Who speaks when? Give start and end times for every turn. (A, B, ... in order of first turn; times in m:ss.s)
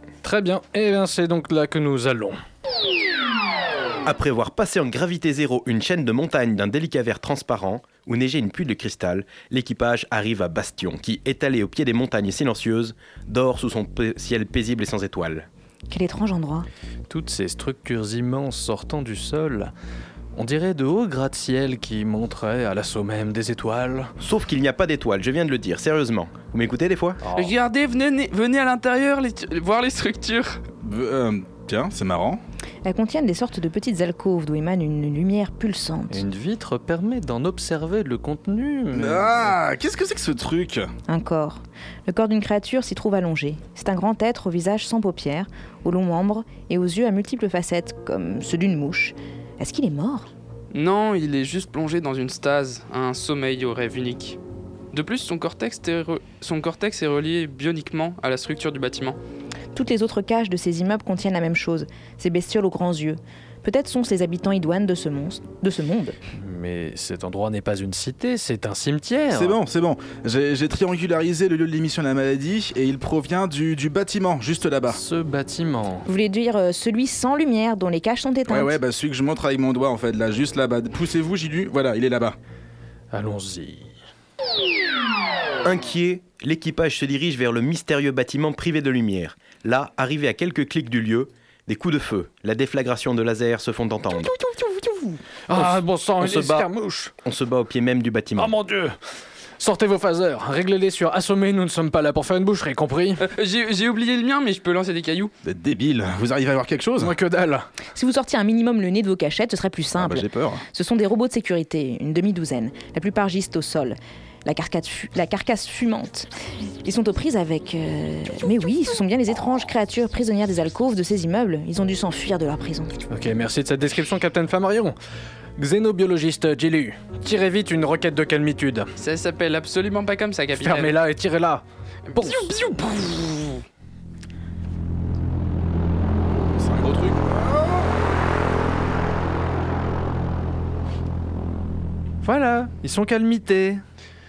0:00.2-0:02.4 A
0:04.0-0:15.5 B
0:15.9-0:16.7 C
0:17.1-0:19.7 A
0:20.4-0:24.1 A
0:24.2-0:27.2 B
0:27.2-0:27.6 A
0:27.4-0:30.6 D
0:30.8-0:32.4 E
0:32.8-0:36.2 C
0:36.1-0:39.3 A
0:38.9-0:40.9 E
0:41.1-0:50.3 C
0:50.7-0:54.4 D
0:54.9-0:59.2 D
0:59.7-1:06.2 C
1:06.4-1:09.6 A
1:09.3-1:15.0 E
1:14.9-1:16.1 A
1:16.1-1:18.7 C
1:18.5-1:22.4 E
1:23.1-1:23.9 A
1:25.6-1:34.3 B
1:34.2-1:37.1 A
1:35.5-1:36.7 B
1:37.2-1:38.5 B
1:38.4-1:39.0 A
1:39.6-1:43.2 A
1:43.2-1:45.3 D
1:45.4-1:47.2 E
1:47.0-1:47.7 A
1:47.9-1:56.3 C
1:50.0-1:50.6 E
1:56.8-2:02.9 C
2:03.1-2:05.0 A
2:05.6-2:08.9 A
2:09.0-2:11.0 D
2:10.6-2:12.8 A
2:12.1-2:13.6 D
2:16.5-2:17.9 E
2:22.2-2:23.8 A